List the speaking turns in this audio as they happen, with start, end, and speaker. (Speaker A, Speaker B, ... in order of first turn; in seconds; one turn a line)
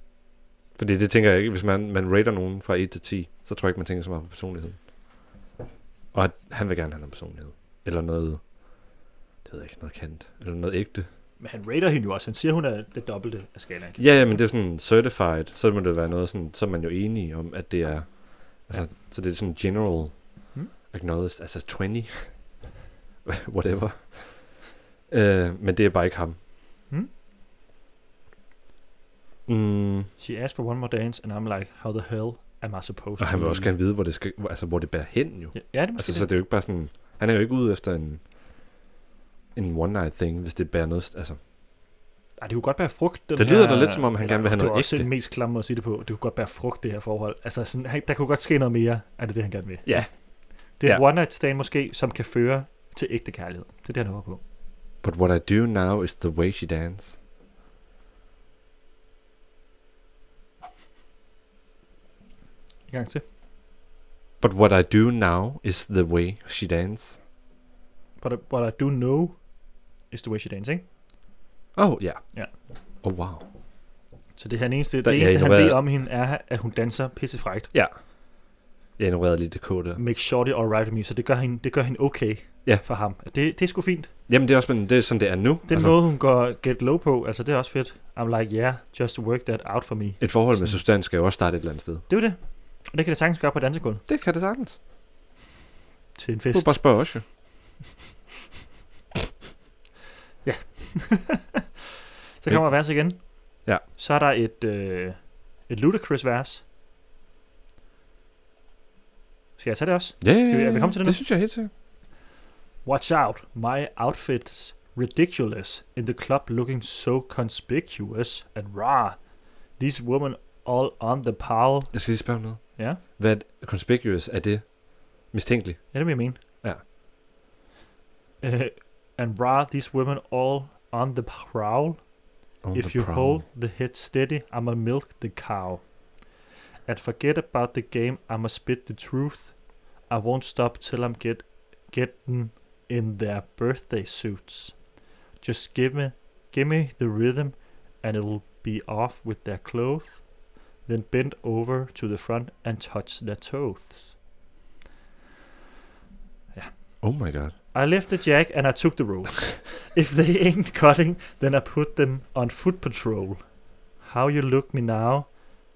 Speaker A: 0.8-4.8
Speaker A: 6.1-8.4
Speaker A: 9.4-11.1
Speaker B: 11.4-14.0
Speaker A: 14.0-20.2
Speaker A: 20.9-22.3
Speaker A: 23.2-26.4
Speaker A: 29.5-30.1
Speaker B: 30.2-33.7
Speaker A: 33.2-38.2
Speaker B: 35.5-36.3
Speaker A: 39.5-41.4
Speaker B: 42.4-49.9
Speaker A: 43.4-45.1
Speaker A: 49.9-50.1
Speaker B: 50.8-54.4
Speaker A: 55.0-57.2
Speaker B: 62.9-63.2
Speaker A: 64.4-67.2
Speaker B: 68.2-69.4
Speaker B: 70.1-70.8
Speaker A: 71.8-72.2
Speaker A: 73.0-73.5
Speaker B: 74.4-77.7
Speaker A: 75.0-75.8
Speaker A: 79.0-80.0
Speaker B: 80.0-84.1
Speaker A: 84.3-86.0
Speaker B: 85.7-90.8
Speaker A: 90.2-92.1
Speaker B: 92.1-94.0
Speaker A: 94.1-94.8
Speaker B: 96.2-96.8
Speaker A: 96.5-97.2
Speaker B: 100.5-101.6
Speaker B: 102.4-106.6
Speaker A: 102.5-102.7
Speaker B: 109.6-111.2
Speaker A: 110.2-111.7
Speaker B: 112.8-119.2
Speaker B: 119.8-121.9
Speaker A: 121.9-126.0
Speaker B: 122.8-123.0
Speaker B: 125.9-126.4
Speaker B: 128.4-132.0
Speaker A: 132.6-133.4
Speaker B: 132.7-135.8
Speaker B: 136.9-139.6
Speaker B: 140.1-144.8
Speaker B: 145.4-150.3
Speaker B: 150.8-154.1
Speaker A: 157.0-157.5
Speaker B: 157.7-163.4
Speaker B: 164.0-165.4